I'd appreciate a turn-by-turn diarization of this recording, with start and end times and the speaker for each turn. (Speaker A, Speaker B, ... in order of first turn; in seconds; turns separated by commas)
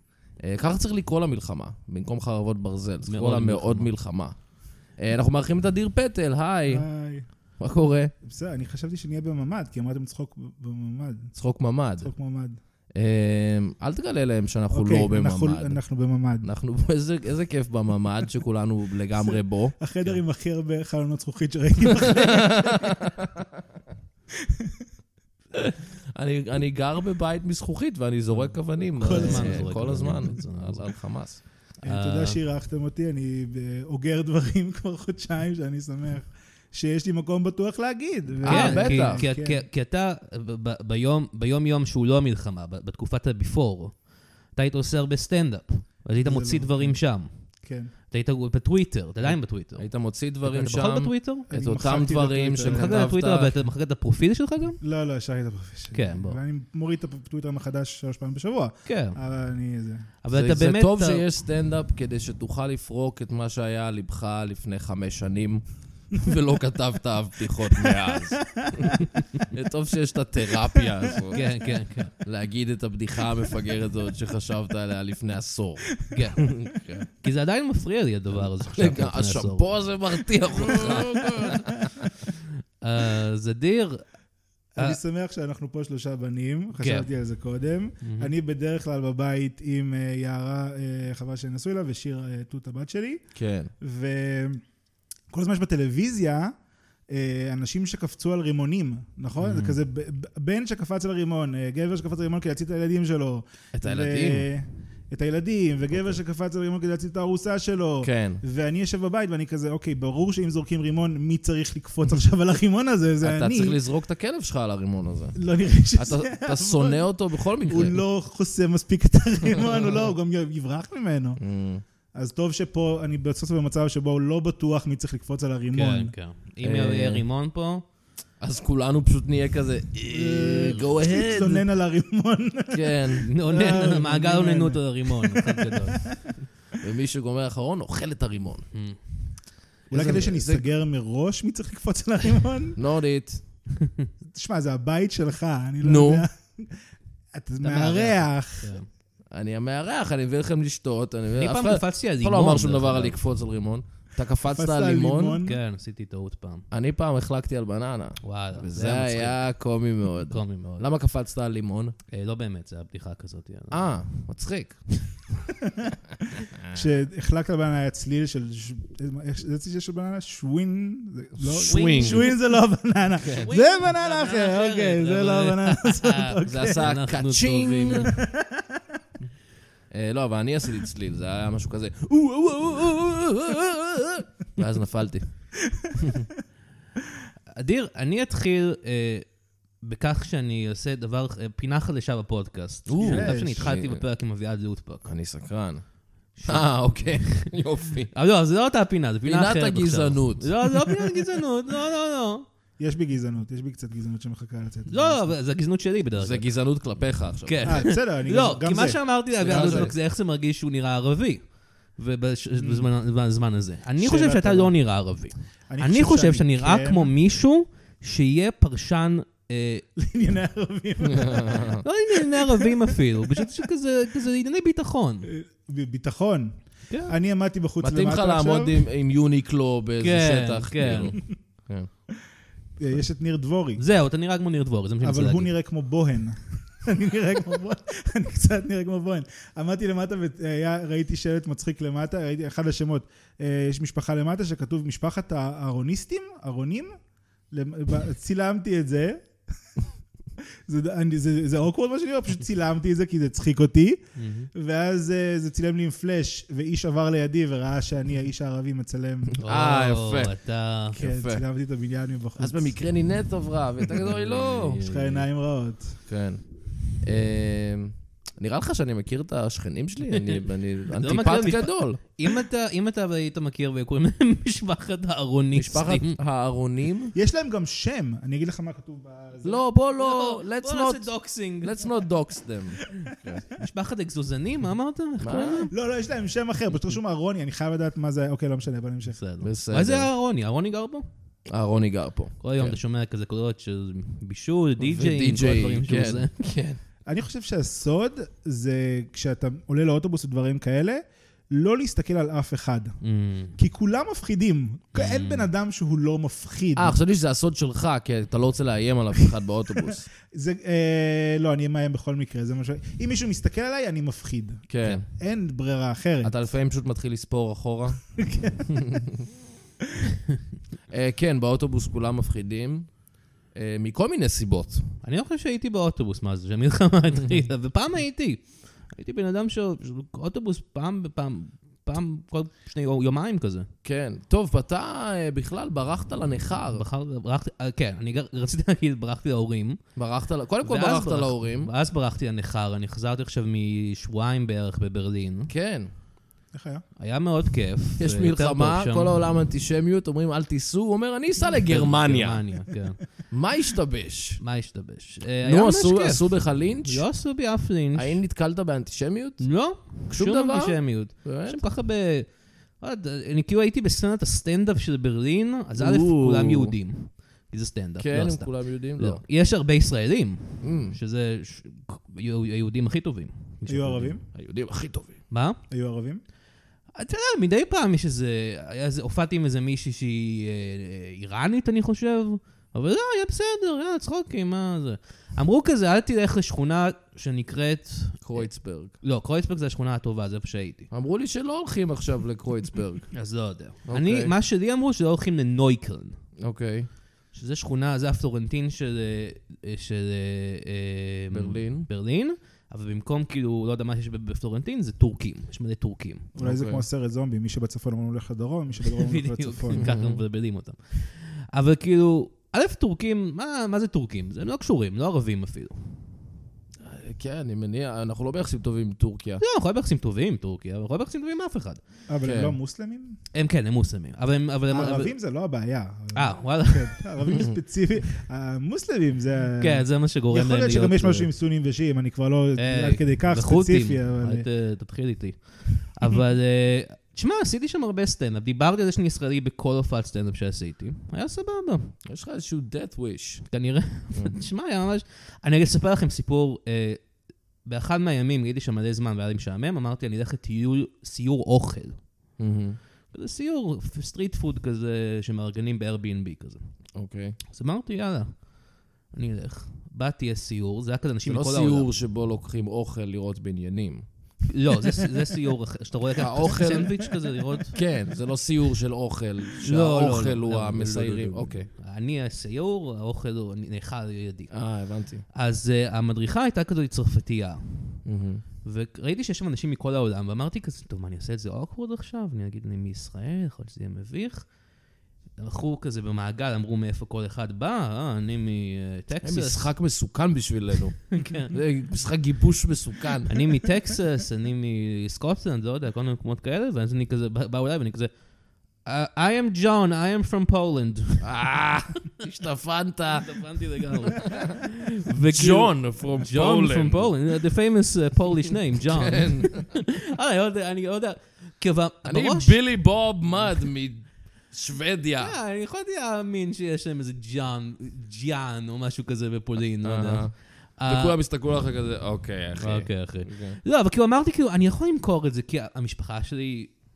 Speaker A: 0.4-6.9, Speaker B: 3.0-3.9, Speaker C: 6.7-7.2, Speaker A: 7.6-8.1, Speaker C: 8.2-11.3, Speaker A: 11.3-12.1, Speaker C: 12.0-12.6, Speaker A: 12.9-15.8, Speaker C: 14.7-16.5, Speaker A: 16.4-20.2, Speaker C: 19.2-22.9, Speaker A: 22.0-23.3, Speaker C: 24.4-24.9, Speaker A: 25.5-31.4, Speaker B: 28.9-31.0, Speaker C: 29.0-29.7, Speaker C: 31.8-39.6, Speaker B: 31.8-32.4, Speaker A: 38.4-39.2, Speaker B: 38.4-47.4, Speaker C: 46.2-47.0, Speaker C: 47.6-47.9, Speaker B: 48.1-51.5, Speaker A: 49.8-53.6, Speaker C: 51.5-52.9, Speaker B: 52.6-54.8, Speaker C: 54.8-60.0, Speaker B: 55.9-56.4, Speaker B: 58.9-59.2, Speaker B: 60.2-61.2, Speaker A: 60.3-71.5, Speaker C: 67.8-69.0, Speaker B: 71.3-72.1, Speaker A: 72.2-77.1, Speaker B: 76.1-76.5, Speaker B: 77.2-79.8, Speaker A: 78.3-82.1, Speaker C: 80.6-81.0, Speaker B: 80.6-81.0, Speaker B: 82.8-84.0, Speaker C: 84.8-93.2, Speaker B: 86.8-87.1, Speaker B: 88.0-88.3, Speaker A: 93.3-93.7, Speaker C: 93.8-94.6, Speaker C: 95.3-96.5, Speaker C: 97.1-113.8, Speaker A: 99.4-99.7, Speaker A: 103.7-104.5, Speaker A: 108.0-108.4, Speaker A: 113.2-115.4, Speaker C: 115.3-117.1, Speaker A: 115.9-118.0, Speaker C: 117.6-121.4, Speaker A: 121.4-121.8, Speaker C: 122.1-126.1, Speaker B: 125.7-127.8, Speaker A: 126.6-127.2, Speaker A: 128.4-131.6, Speaker C: 130.1-136.2, Speaker A: 132.7-133.2, Speaker B: 133.2-136.1, Speaker A: 136.8-138.7, Speaker B: 138.7-139.0, Speaker A: 139.9-140.7, Speaker C: 139.9-142.8, Speaker A: 142.8-143.4, Speaker C: 144.3-146.8, Speaker A: 145.8-146.2, Speaker C: 147.3-148.8, Speaker B: 147.6-148.9, Speaker A: 149.3-155.4, Speaker B: 151.4-153.2, Speaker C: 154.4-155.6, Speaker B: 155.4-156.7, Speaker A: 156.7-161.9, Speaker B: 158.2-159.5, Speaker B: 160.3-160.9, Speaker B: 162.1-163.9, Speaker A: 163.7-164.8, Speaker C: 165.6-165.9, Speaker C: 166.7-176.9, Speaker A: 171.4-172.3, Speaker B: 171.7-172.5, Speaker B: 173.2-178.2, Speaker A: 173.2-173.5, Speaker A: 176.4-178.2, Speaker C: 178.0-178.8, Speaker A: 179.9-185.3, Speaker A: 185.9-186.3, Speaker B: 187.6-195.1, Speaker A: 192.9-194.0, Speaker C: 193.0-193.7, Speaker A: 195.0-198.1, Speaker B: 196.3-197.5, Speaker B: 198.1-202.4, Speaker A: 199.3-200.7, Speaker C: 202.8-205.3, Speaker B: 204.9-206.5, Speaker A: 206.2-207.9, Speaker B: 207.4-219.8, Speaker C: 207.7-209.9, Speaker A: 209.4-209.9, Speaker C: 212.6-212.9, Speaker C: 214.0-214.7, Speaker C: 215.7-217.1, Speaker C: 219.9-223.5, Speaker A: 221.0-221.8, Speaker B: 221.8-225.3, Speaker C: 225.2-226.5, Speaker C: 227.1-228.8, Speaker A: 227.8-231.9, Speaker B: 230.0-231.2, Speaker C: 232.8-233.8, Speaker B: 233.8-235.5, Speaker C: 235.0-246.9, Speaker C: 247.5-249.2, Speaker C: 250.7-254.0, Speaker B: 254.2-254.5, Speaker C: 254.5-259.3, Speaker B: 259.4-261.0, Speaker A: 259.4-260.3, Speaker A: 260.9-261.4, Speaker C: 260.9-262.8, Speaker A: 262.4-264.8, Speaker B: 264.0-265.2, Speaker C: 264.8-265.9, Speaker A: 266.1-266.4, Speaker A: 267.0-272.1, Speaker B: 270.1-276.2, Speaker A: 275.5-277.1, Speaker C: 277.1-279.6, Speaker A: 279.4-283.4, Speaker B: 280.0-282.0, Speaker B: 283.5-285.7, Speaker A: 285.2-285.7, Speaker C: 285.7-289.2, Speaker B: 289.1-291.1, Speaker A: 289.4-290.1, Speaker A: 291.5-292.8, Speaker B: 292.4-296.3, Speaker A: 294.8-296.8, Speaker C: 297.1-302.9, Speaker B: 303.0-303.5, Speaker C: 303.6-306.9, Speaker B: 304.9-305.5, Speaker A: 306.8-310.1, Speaker C: 310.3-316.3, Speaker A: 314.7-315.0, Speaker A: 316.2-318.1, Speaker C: 318.2-319.0, Speaker A: 318.7-319.1, Speaker A: 320.9-323.0, Speaker A: 323.5-324.9, Speaker B: 325.0-333.7, Speaker A: 333.8-336.8, Speaker B: 336.7-339.8, Speaker A: 339.9-341.7, Speaker B: 340.6-345.5, Speaker A: 345.5-345.9, Speaker C: 346.5-346.8, Speaker B: 347.0-349.1, Speaker A: 348.0-352.4, Speaker B: 351.5-353.1, Speaker A: 353.3-354.4, Speaker B: 354.4-358.2, Speaker A: 355.4-357.1, Speaker A: 357.9-361.6, Speaker B: 359.4-374.2, Speaker A: 365.8-366.7, Speaker A: 368.0-369.2, Speaker A: 370.6-370.9, Speaker C: 373.7-374.2, Speaker A: 374.3-375.2, Speaker B: 375.3-375.6, Speaker C: 375.7-376.2, Speaker B: 376.9-388.5, Speaker A: 388.2-388.9, Speaker B: 389.0-390.9, Speaker A: 390.9-393.1, Speaker B: 393.1-396.1, Speaker A: 393.9-394.3, Speaker A: 396.4-396.9, Speaker B: 397.3-406.3, Speaker A: 401.3-401.9, Speaker C: 406.3-409.9, Speaker A: 406.4-406.8, Speaker B: 408.8-415.8, Speaker A: 409.8-410.2, Speaker A: 416.8-419.4, Speaker B: 419.4-421.8, Speaker C: 422.1-423.2, Speaker A: 422.2-422.6, Speaker B: 423.3-425.1, Speaker C: 424.7-434.5, Speaker B: 426.1-427.4, Speaker B: 429.6-431.3, Speaker B: 432.6-442.0, Speaker A: 442.0-443.4, Speaker B: 443.4-447.0, Speaker B: 447.6-452.0, Speaker A: 452.4-452.8, Speaker B: 453.1-456.6, Speaker A: 456.9-457.4, Speaker B: 457.5-458.5, Speaker B: 459.1-461.9, Speaker A: 461.2-464.1, Speaker B: 464.5-467.8, Speaker A: 466.2-467.0, Speaker A: 467.7-471.7, Speaker B: 469.6-474.5, Speaker A: 474.5-475.2, Speaker B: 475.3-478.0, Speaker A: 478.0-478.4, Speaker B: 478.6-484.5, Speaker B: 485.4-489.7, Speaker A: 489.2-493.3, Speaker B: 491.1-491.5, Speaker B: 493.3-498.1, Speaker B: 498.8-501.2, Speaker A: 501.2-503.4, Speaker B: 503.1-512.6, Speaker A: 504.1-504.6, Speaker A: 505.2-507.1, Speaker A: 508.9-509.6, Speaker A: 512.0-515.3, Speaker B: 515.2-521.2, Speaker A: 519.8-523.6, Speaker B: 522.6-526.8